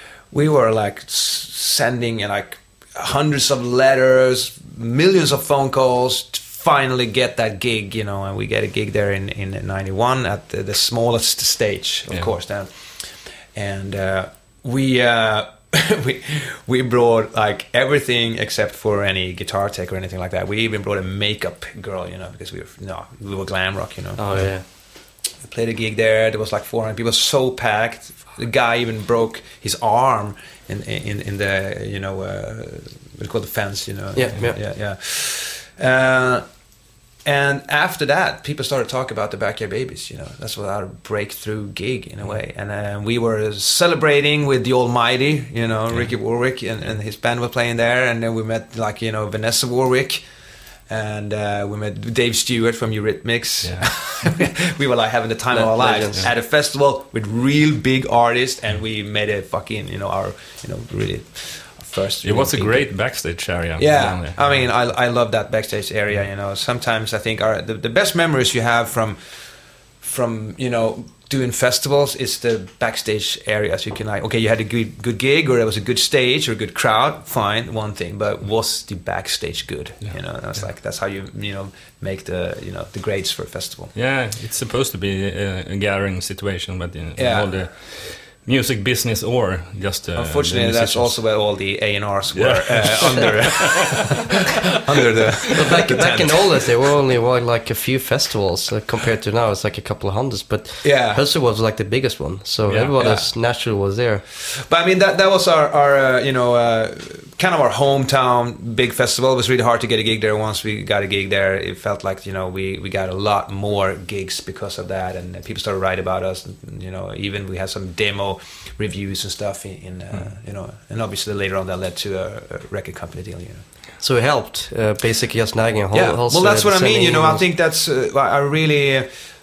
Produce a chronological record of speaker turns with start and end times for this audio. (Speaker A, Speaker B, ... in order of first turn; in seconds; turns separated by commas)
Speaker A: 0.3-24.5, Speaker B: 24.2-24.6, Speaker A: 25.4-36.5, Speaker B: 34.1-34.6, Speaker A: 37.2-50.2, Speaker A: 50.9-63.0, Speaker B: 55.5-56.3, Speaker C: 62.2-64.6, Speaker A: 63.8-69.2, Speaker A: 70.0-83.9, Speaker C: 84.0-91.1, Speaker A: 87.2-87.5, Speaker A: 90.2-96.7, Speaker C: 92.3-93.8, Speaker B: 95.5-104.2, Speaker A: 100.8-101.2, Speaker C: 102.7-102.9, Speaker A: 103.0-103.3, Speaker A: 104.7-123.6, Speaker B: 124.0-127.5, Speaker A: 125.9-129.1